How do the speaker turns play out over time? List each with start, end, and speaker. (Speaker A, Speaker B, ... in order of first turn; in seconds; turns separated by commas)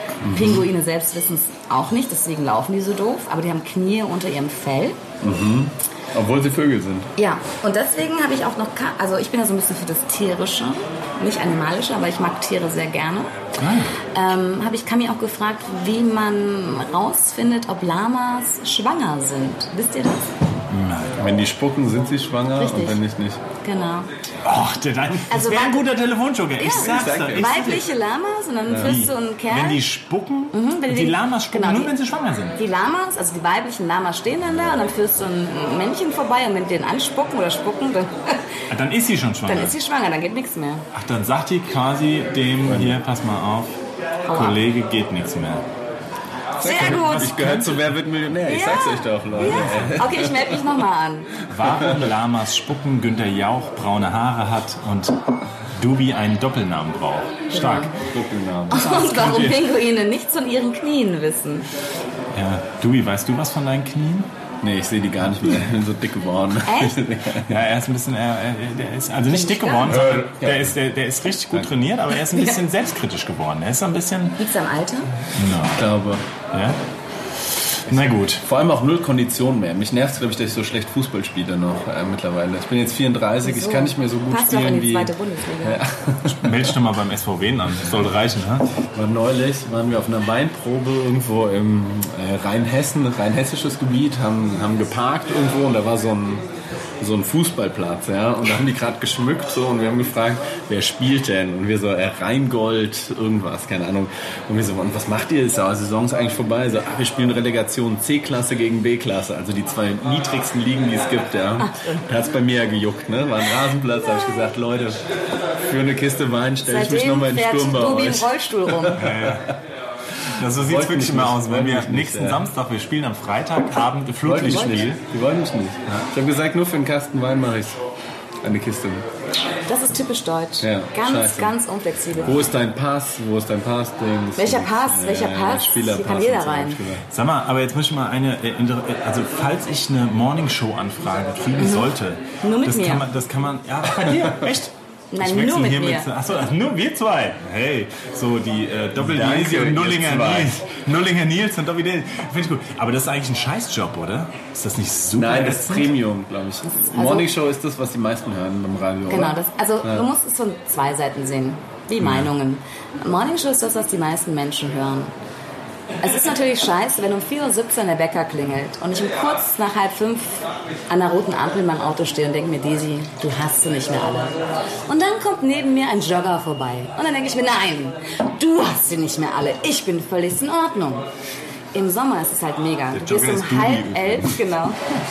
Speaker A: 0.2-0.7, Speaker B: 0.3-5.0, Speaker A: 5.2-7.1, Speaker B: 7.2-13.4, Speaker C: 13.6-13.9, Speaker B: 14.1-20.3, Speaker C: 20.7-21.2, Speaker A: 21.2-23.4, Speaker B: 22.6-23.0, Speaker B: 23.6-24.1, Speaker C: 24.4-27.8, Speaker B: 25.3-25.9, Speaker B: 26.6-29.8, Speaker A: 26.7-27.9, Speaker A: 28.7-28.9, Speaker C: 28.8-32.6, Speaker B: 30.5-31.9, Speaker B: 32.6-38.6, Speaker C: 38.7-39.8, Speaker B: 39.5-40.9, Speaker C: 40.9-45.6, Speaker A: 42.6-43.0, Speaker B: 44.2-44.6, Speaker A: 46.6-50.6, Speaker B: 46.6-47.5, Speaker C: 46.7-47.9, Speaker B: 48.5-51.3, Speaker C: 49.4-50.1, Speaker C: 51.5-55.2, Speaker A: 51.6-51.9, Speaker C: 55.7-58.0, Speaker B: 57.5-57.9, Speaker A: 58.0-59.0, Speaker B: 58.7-61.7, Speaker C: 58.8-59.7, Speaker C: 62.3-64.3, Speaker A: 64.6-67.6, Speaker B: 66.7-67.0, Speaker C: 67.5-74.4, Speaker B: 69.3-70.1, Speaker A: 69.8-70.8, Speaker B: 74.4-75.1, Speaker C: 75.3-75.9, Speaker A: 75.8-76.2, Speaker C: 76.5-76.8, Speaker C: 77.5-78.4, Speaker A: 77.9-85.1, Speaker B: 83.4-85.8, Speaker A: 85.6-86.8, Speaker C: 86.3-88.7, Speaker A: 88.9-96.5, Speaker A: 97.0-115.0, Speaker B: 111.6-112.0, Speaker A: 115.7-119.6, Speaker B: 116.7-119.0, Speaker C: 119.0-119.5, Speaker C: 120.4-124.9, Speaker A: 120.4-122.5, Speaker A: 124.2-127.8, Speaker B: 124.4-124.8, Speaker A: 128.4-129.1, Speaker B: 129.7-132.5, Speaker A: 130.6-131.6, Speaker C: 132.2-132.5, Speaker A: 132.2-137.1, Speaker B: 134.4-136.8, Speaker C: 137.1-155.9, Speaker B: 141.6-143.1, Speaker B: 145.1-146.1, Speaker A: 149.0-150.6, Speaker A: 155.2-160.1, Speaker B: 156.6-157.3, Speaker B: 159.1-165.1, Speaker C: 162.0-162.3, Speaker B: 166.0-181.1, Speaker B: 181.7-184.8, Speaker A: 182.9-184.4